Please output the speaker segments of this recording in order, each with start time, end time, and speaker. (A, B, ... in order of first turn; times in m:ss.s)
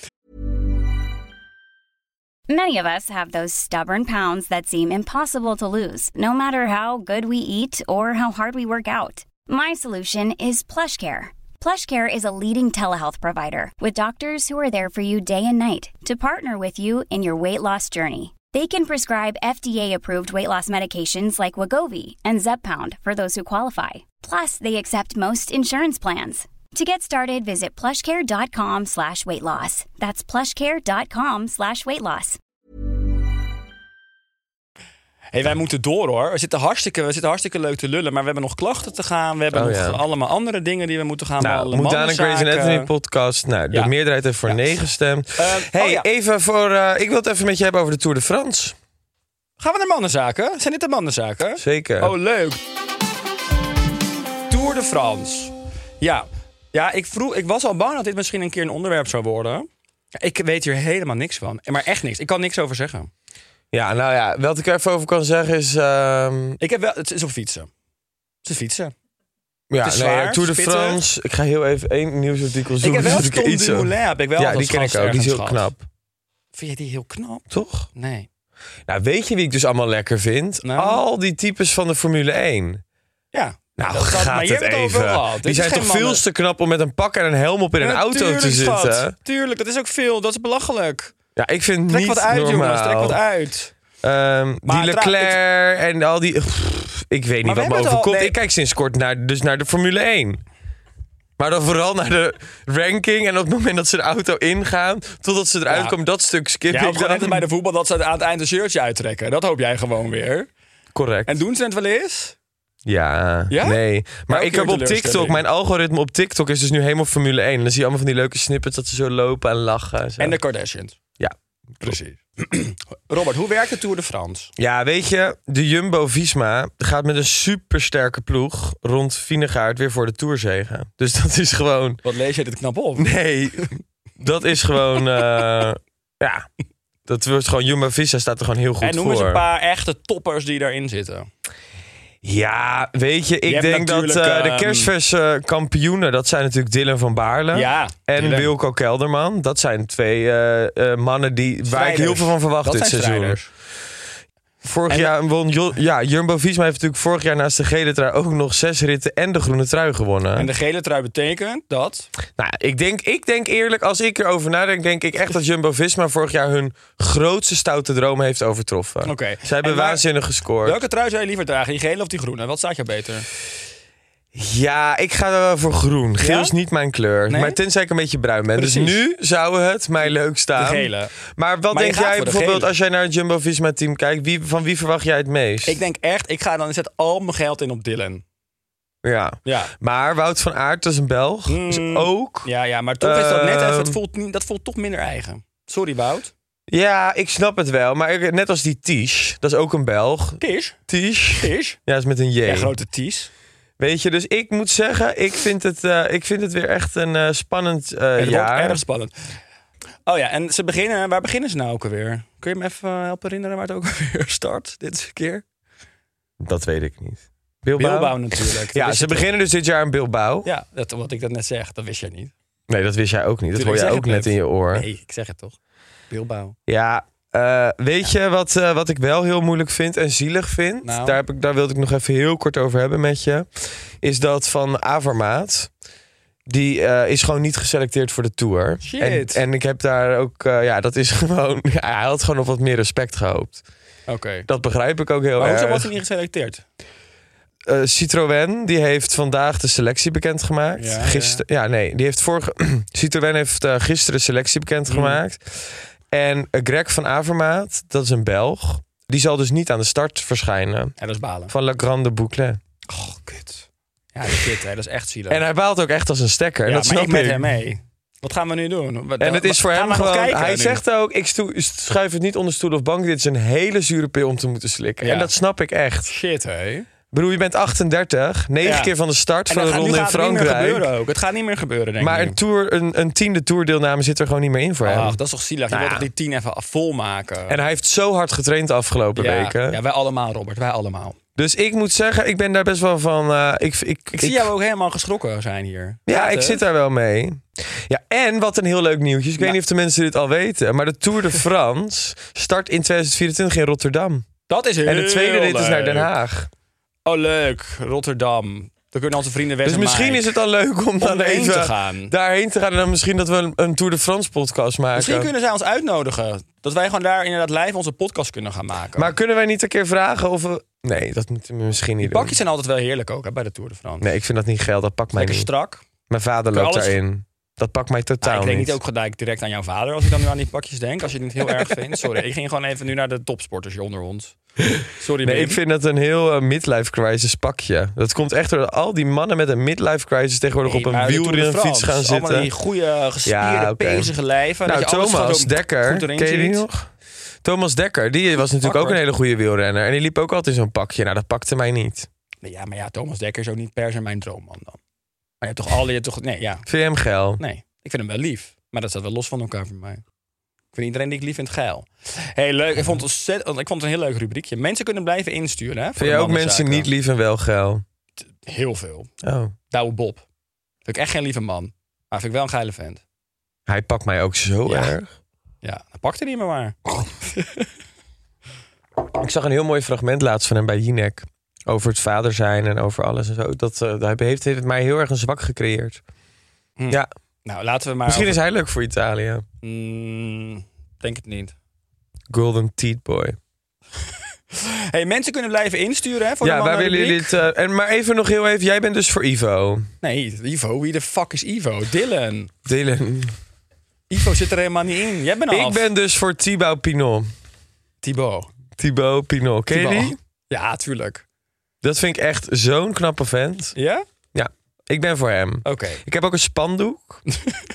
0:02.5-0:32.4 A
0:35.3-0:42.9 B
0:39.5-0:40.0 C
0:41.4-0:48.8 C
0:43.7-0:46.1 B
0:49.6-0:52.6 B
0:51.6-0:52.1 C
0:54.5-1:03.1 B
1:03.7-1:06.6 C
1:06.6-1:07.7 B
1:08.4-1:08.9 B
1:09.7-1:15.8 C
1:09.8-1:11.0 B
1:12.8-1:15.7 B
1:16.5-1:18.3 B
1:17.5-1:17.9 C
1:18.9-1:22.8 C
1:20.6-1:21.0 B
1:23.3-1:26.2 B
1:23.8-1:29.1 C
1:27.8-1:31.1 B
1:31.4-1:33.2 C
1:31.9-1:33.7 B
1:34.0-1:40.4 C
1:34.6-1:35.4 B
1:37.4-1:38.4 B
1:41.4-1:47.4 C
1:45.7-1:46.0 B
1:46.7-1:50.5 B
1:50.9-1:51.4 C
1:51.3-1:52.4 B
1:52.8-2:00.4 C
1:53.5-1:55.4 B
2:00.2-2:01.0 B
2:01.2-2:01.9 C
2:01.8-2:04.5 B
2:04.6-2:12.0 C
2:12.0-2:13.7 B
2:13.0-2:16.5 C
2:17.0-2:19.4 C
2:18.8-2:21.3 B
2:22.2-2:33.4 C
2:23.4-2:24.9 B
2:27.5-2:28.5 B
2:31.7-2:33.5 B
2:34.6-2:40.5 C
2:34.9-2:35.1 B
2:40.4-2:42.1 B
2:42.4-2:50.8 C
2:49.0-2:50.0 B
2:50.6-2:53.3 B
2:54.3-3:05.8 C
2:56.2-2:56.5 B
2:57.3-2:57.6 B
2:58.6-2:59.0 B
3:00.6-3:01.1 B
3:01.7-3:02.7 B
3:05.6-3:08.2 B
3:09.0-3:14.0 C
3:09.4-3:09.7 B
3:11.5-3:16.3 B
3:16.7-3:22.7 C
3:20.4-3:20.8 B
3:21.4-3:21.8 B
3:22.4-3:23.3 B
3:23.8-3:28.8 C
3:28.2-3:29.4 B
3:30.0-3:35.4 B
3:36.4-3:40.5 C
3:37.8-3:39.3 B
3:40.4-3:42.3 B
3:42.7-3:44.8 C
3:43.5-3:45.6 B
3:46.1-3:46.6 B
3:46.7-3:55.7 C
3:50.8-3:51.2 B
3:56.5-4:03.6 C
3:58.8-3:59.4 B
4:04.1-4:04.5 B
4:04.5-4:05.9 C
4:05.4-4:06.6 B
4:07.6-4:20.9 C
4:10.8-4:11.4 B
4:14.9-4:15.2 B
4:21.0-4:21.5 B
4:21.5-4:22.6 C
4:22.9-4:25.4 B
4:25.3-4:27.5 C
4:26.6-4:30.8 B
4:29.2-4:36.1 C
4:35.0-4:35.3 B
4:36.0-4:36.9 B
4:37.1-4:40.9 C
4:38.6-4:38.9 B
4:39.5-4:42.4 B
4:42.0-4:45.2 C
4:44.8-4:47.6 B
4:45.7-4:46.1 C
4:47.5-4:49.8 C
4:49.1-4:51.2 B
4:51.4-4:54.5 C
4:54.2-4:56.6 B
4:56.1-5:04.3 C
5:04.5-5:06.1 B
5:04.8-5:06.5 C
5:07.0-5:10.3 B
5:09.6-5:15.3 C
5:11.0-5:12.1 B
5:14.9-5:19.1 B
5:19.0-5:22.3 C
5:22.0-5:24.1 B
5:24.0-5:25.5 C
5:25.1-5:25.8 B
5:26.1-5:28.8 C
5:26.5-5:27.0 B
5:28.2-5:34.3 B
5:34.6-5:42.5 C
5:34.9-5:35.6 B
5:40.6-5:46.6 B
5:43.2-5:44.1 C
5:44.6-5:46.9 C
5:47.4-5:52.1 C
5:48.6-5:49.0 B
5:52.4-5:54.8 B
5:55.4-5:56.6 B
5:56.6-5:57.4 C
5:57.4-6:00.0 B
6:00.7-6:06.9 B
6:06.0-6:07.8 C
6:08.4-6:09.1 B
6:09.2-6:09.5 C
6:09.7-6:10.2 B
6:10.8-6:13.0 B
6:13.7-6:15.2 C
6:14.6-6:14.9 B
6:15.6-6:17.7 B
6:19.2-6:26.0 C
6:26.8-6:28.4 B
6:28.1-6:29.4 C
6:29.6-6:31.5 B
6:32.3-6:33.4 C
6:34.5-6:37.3 B
6:36.4-6:39.9 C
6:40.0-6:42.5 B
6:42.6-6:43.3 C
6:44.1-6:45.9 B
6:45.5-6:47.3 C
6:48.0-6:48.5 B
6:48.8-6:50.2 C
6:49.7-6:51.2 B
6:51.8-6:53.7 C
6:53.8-6:54.0 B
6:54.3-6:57.2 C
6:55.6-6:56.0 B